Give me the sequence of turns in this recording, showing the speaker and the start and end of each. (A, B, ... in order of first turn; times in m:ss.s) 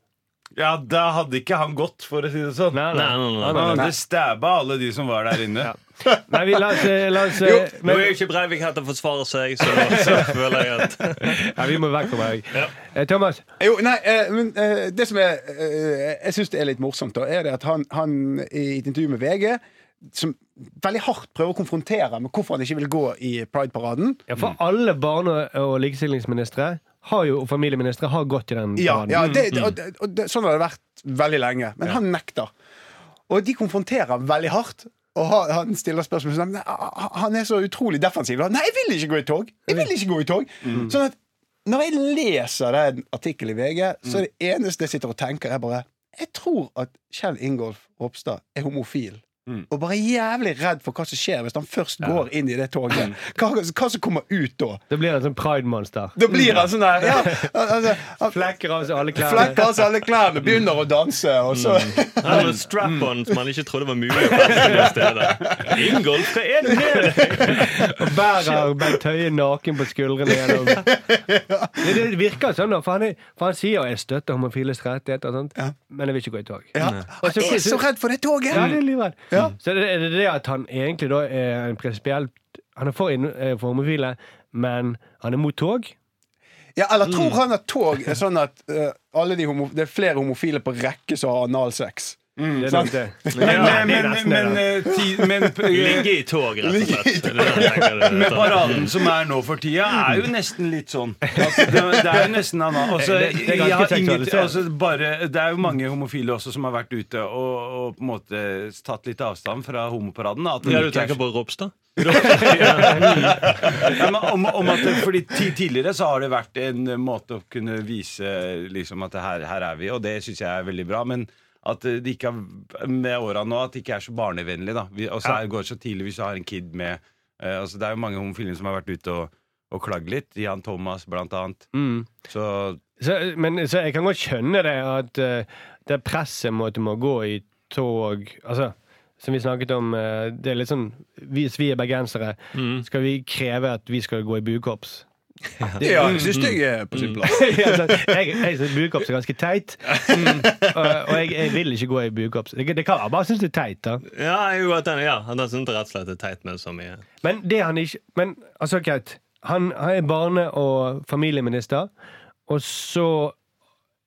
0:00.6-0:02.9 A
0:02.7-0:03.9 B
0:02.9-0:03.9 C
0:03.4-0:05.7 A
0:05.6-0:08.2 B
0:06.0-0:07.7 D
0:07.8-0:11.5 C
0:09.9-0:10.3 B
0:11.2-0:13.4 B
0:13.6-0:24.2 D
0:24.3-0:29.3 B
0:28.8-0:32.5 D
0:29.5-0:29.8 C
0:33.3-0:54.8 D
0:54.9-0:57.5 B
0:56.2-0:58.5 D
0:58.2-0:59.6 B
0:59.1-1:03.1 D
1:01.5-1:07.8 C
1:04.2-1:06.0 D
1:06.7-1:07.2 D
1:07.4-1:10.9 B
1:10.4-1:12.0 D
1:11.8-1:17.9 B
1:16.7-1:18.8 D
1:18.5-1:26.0 B
1:26.8-1:33.8 D
1:27.1-1:27.4 C
1:32.6-1:34.7 B
1:33.3-1:34.0 C
1:33.4-1:36.1 A
1:34.9-1:36.1 D
1:35.7-1:39.0 C
1:36.6-1:38.9 D
1:38.0-1:51.2 A
1:41.3-1:42.2 B
1:41.4-1:42.0 D
1:42.9-1:44.6 B
1:50.6-1:54.0 C
1:52.0-2:11.7 A
1:52.3-1:53.3 B
2:11.7-2:12.1 B
2:12.3-2:12.8 A
2:13.0-2:25.1 B
2:22.6-2:22.8 C
2:25.6-2:27.2 C
2:25.6-2:26.2 B
2:25.8-2:28.4 D
2:27.3-2:34.0 B
2:29.9-2:30.8 D
2:30.1-2:30.5 A
2:34.1-2:37.0 C
2:37.2-2:41.9 B
2:42.5-2:43.4 B